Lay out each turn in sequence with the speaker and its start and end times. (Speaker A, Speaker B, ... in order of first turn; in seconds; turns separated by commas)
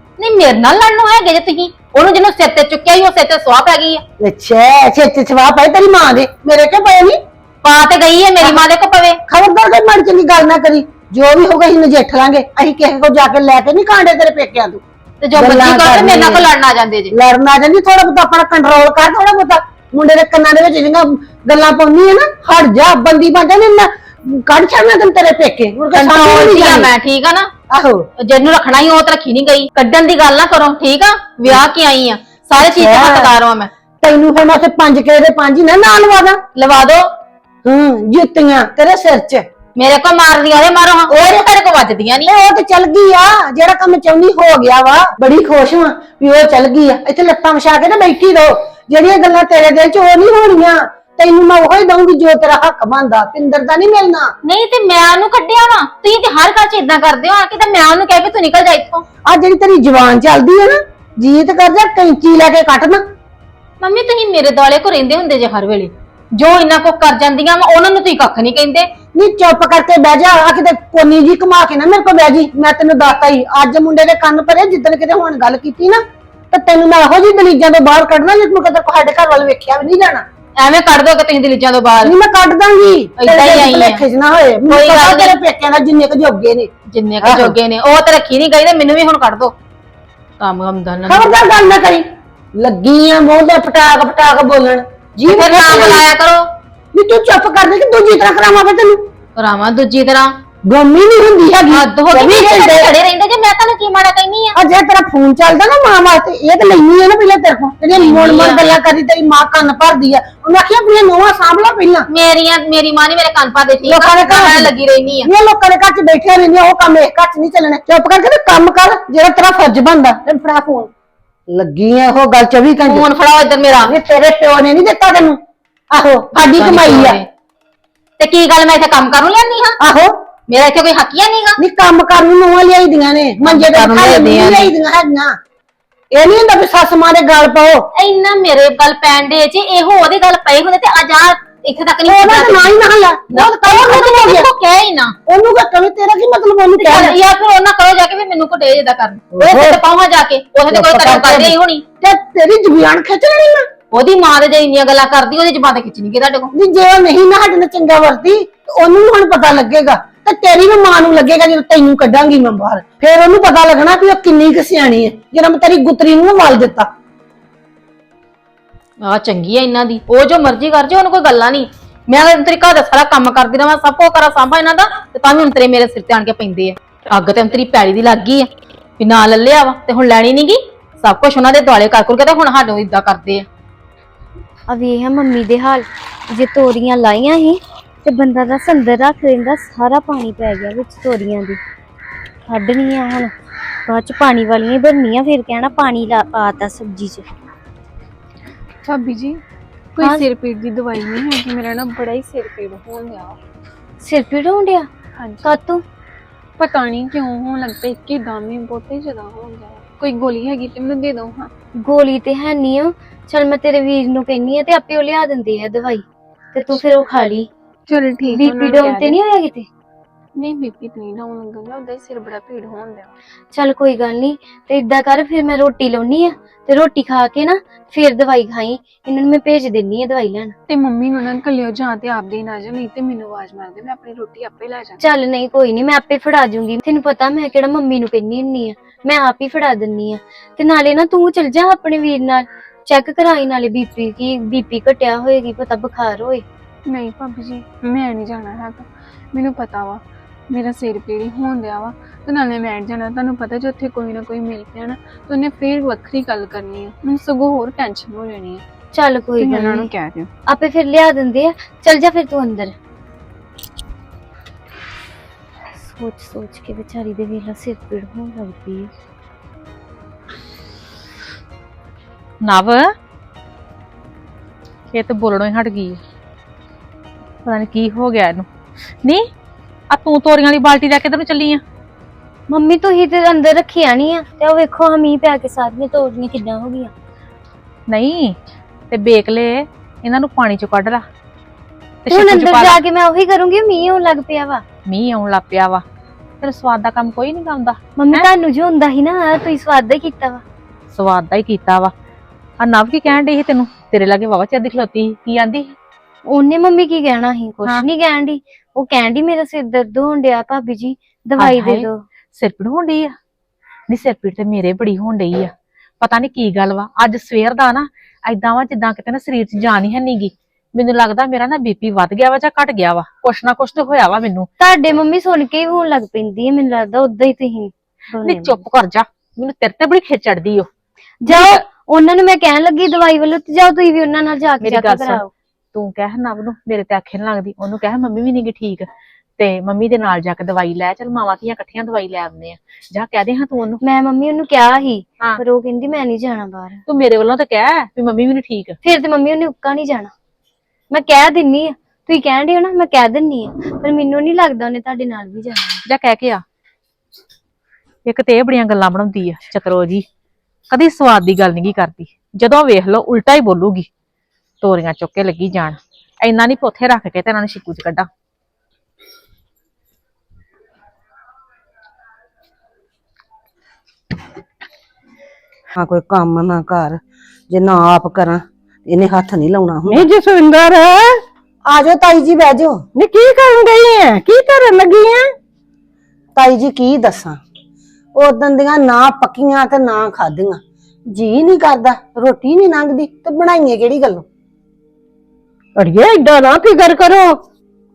Speaker A: 0.2-4.0, Speaker B: 4.2-7.2, Speaker A: 7.6-9.2, Speaker B: 9.3-14.8, Speaker A: 15.2-17.1, Speaker B: 15.3-16.5, Speaker B: 17.1-26.9, Speaker A: 25.9-27.5, Speaker B: 27.7-28.0, Speaker A: 28.2-33.7, Speaker B: 32.6-33.3, Speaker B: 34.0-36.4, Speaker A: 36.5-37.1, Speaker B: 37.6-39.5, Speaker A: 39.8-42.3, Speaker B: 41.1-41.4, Speaker B: 42.2-54.3, Speaker A: 54.4-59.0, Speaker B: 59.3-63.0, Speaker A: 63.8-68.9, Speaker B: 69.1-80.2, Speaker A: 80.6-82.1, Speaker B: 82.0-86.7, Speaker A: 83.2-84.0, Speaker A: 84.7-85.3, Speaker A: 86.9-89.5, Speaker B: 87.2-87.6, Speaker A: 90.4-91.3, Speaker B: 91.1-92.0, Speaker B: 92.6-96.1, Speaker A: 95.2-96.4, Speaker B: 96.9-99.0, Speaker A: 99.4-100.3, Speaker B: 100.7-102.9, Speaker A: 101.7-104.6, Speaker B: 104.5-112.1, Speaker A: 107.9-108.8, Speaker A: 112.1-115.3, Speaker B: 113.8-120.9, Speaker B: 121.5-123.1, Speaker A: 122.8-123.9, Speaker B: 123.8-125.4, Speaker B: 125.9-127.2, Speaker A: 126.4-127.2, Speaker A: 128.2-129.8, Speaker B: 129.8-130.1, Speaker A: 130.5-131.6, Speaker B: 131.6-135.3, Speaker A: 133.4-134.7, Speaker B: 136.1-137.8, Speaker A: 137.9-142.7, Speaker B: 142.1-144.5, Speaker A: 143.3-145.1, Speaker B: 145.3-147.2, Speaker A: 146.8-151.8, Speaker B: 149.3-149.8, Speaker B: 150.7-153.7, Speaker A: 153.9-156.5, Speaker B: 156.5-166.9, Speaker A: 169.0-183.4, Speaker C: 184.7-191.6, Speaker C: 192.5-193.3, Speaker C: 193.8-197.3, Speaker D: 198.8-199.4, Speaker D: 200.0-203.4, Speaker C: 200.0-200.3, Speaker C: 204.0-204.9, Speaker D: 205.2-205.6, Speaker C: 205.4-205.8, Speaker D: 206.6-211.5, Speaker C: 211.8-217.5, Speaker D: 217.9-219.2, Speaker C: 218.2-219.7, Speaker D: 220.3-223.1, Speaker C: 223.5-230.6, Speaker D: 230.7-235.0, Speaker C: 235.0-246.4, Speaker D: 246.9-258.6, Speaker C: 258.9-259.9, Speaker D: 259.4-260.3, Speaker C: 260.5-262.7, Speaker C: 265.8-268.9, Speaker E: 272.4-272.9, Speaker E: 274.9-276.0, Speaker E: 277.4-278.5, Speaker E: 279.9-281.6, Speaker C: 282.5-286.9, Speaker E: 287.9-288.4, Speaker E: 288.9-291.0, Speaker E: 292.1-292.8, Speaker C: 292.1-294.6, Speaker E: 294.9-295.8, Speaker E: 296.4-298.2, Speaker C: 298.0-300.4, Speaker E: 300.9-301.9, Speaker E: 302.6-305.7, Speaker C: 306.3-312.0, Speaker E: 311.4-313.1, Speaker E: 313.9-324.5, Speaker C: 324.6-328.6, Speaker E: 328.2-330.7, Speaker C: 331.2-335.3, Speaker E: 331.3-331.6, Speaker E: 334.6-335.2, Speaker E: 335.7-338.9, Speaker E: 339.4-343.8, Speaker C: 343.8-346.8, Speaker E: 346.9-348.8, Speaker C: 348.8-350.1, Speaker C: 350.9-355.8, Speaker E: 355.9-356.4, Speaker E: 358.1-360.1, Speaker E: 360.7-363.9, Speaker E: 364.6-368.1, Speaker B: 375.8-377.0, Speaker B: 377.5-380.1, Speaker F: 379.9-381.2, Speaker B: 381.7-382.8, Speaker F: 382.9-385.3, Speaker B: 386.3-387.4, Speaker B: 388.1-390.6, Speaker B: 391.1-394.2, Speaker F: 395.8-397.4